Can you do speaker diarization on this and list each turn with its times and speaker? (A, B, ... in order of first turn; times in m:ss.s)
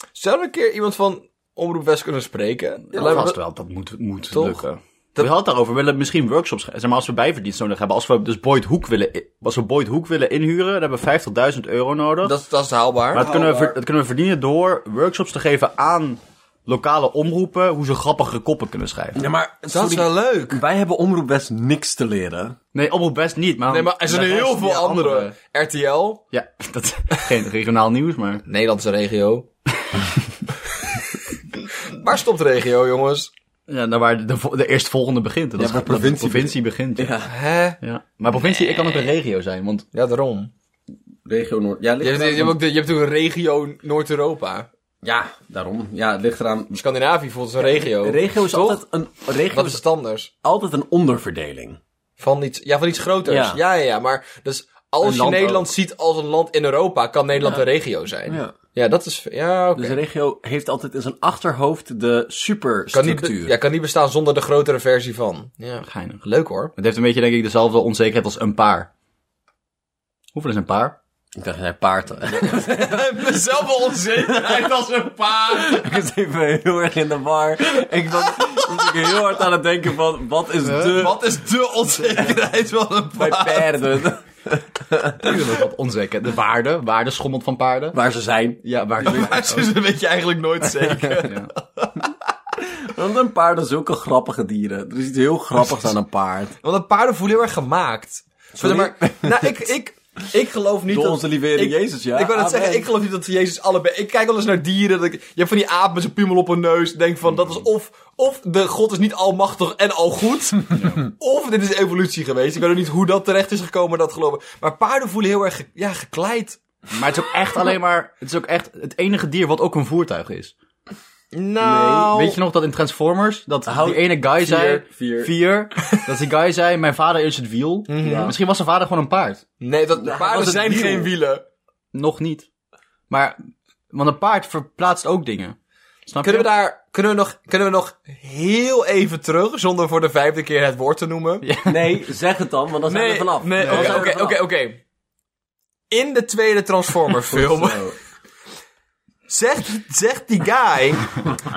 0:00.2-0:03.4 A
0:02.9-0:12.3 B
0:04.3-0:04.6 A
0:12.2-0:13.2 A
0:13.1-0:13.8 C
0:13.1-0:19.2 B
0:19.1-0:22.6 C
0:19.7-0:20.6 A
0:22.7-0:25.3 B
0:23.7-0:26.2 A
0:26.3-0:28.4 B
0:28.5-0:29.4 A
0:31.9-0:33.3 A
0:33.7-0:37.1 B
0:35.6-0:37.3 C
0:37.3-0:37.8 A
0:37.8-0:39.9 B
0:38.4-0:39.1 A
0:39.9-0:40.5 A
0:41.2-0:42.6 C
0:42.0-0:44.7 A
0:45.0-0:46.8 C
0:46.7-0:48.8 A
0:47.6-0:49.8 C
0:49.5-0:50.3 A
0:50.4-0:51.8 C
0:52.2-1:00.0 A
0:53.2-0:53.6 C
0:55.0-0:55.7 C
0:58.3-0:58.5 C
0:59.7-1:03.5 C
1:02.9-1:06.7 A
1:05.8-1:06.2 B
1:06.8-1:08.9 B
1:10.3-1:11.0 B
1:11.4-1:13.4 C
1:12.3-1:16.0 A
1:14.1-1:14.8 C
1:15.5-1:21.2 C
1:20.7-1:23.8 A
1:22.1-1:22.3 C
1:23.2-1:25.3 C
1:25.2-1:28.0 B
1:27.9-1:29.3 C
1:28.6-1:29.7 B
1:29.0-1:32.1 A
1:30.9-1:31.2 C
1:31.2-1:31.5 B
1:32.6-1:36.6 C
1:36.6-1:56.6 A
1:38.6-1:39.6 C
1:40.9-1:42.9 C
1:56.9-2:00.5 B
2:01.3-2:02.4 A
2:01.6-2:02.2 C
2:02.1-2:09.4 B
2:03.6-2:05.3 C
2:07.9-2:08.3 A
2:08.0-2:08.3 C
2:09.6-2:11.4 A
2:09.9-2:11.1 C
2:11.9-2:12.5 B
2:13.1-2:13.4 B
2:13.9-2:15.6 B
2:16.1-2:16.5 B
2:16.2-2:21.5 A
2:21.4-2:22.0 B
2:21.6-2:24.4 C
2:22.9-2:24.8 A
2:23.6-2:24.1 B
2:25.9-2:27.9 A
2:27.3-2:28.0 C
2:29.3-2:31.2 A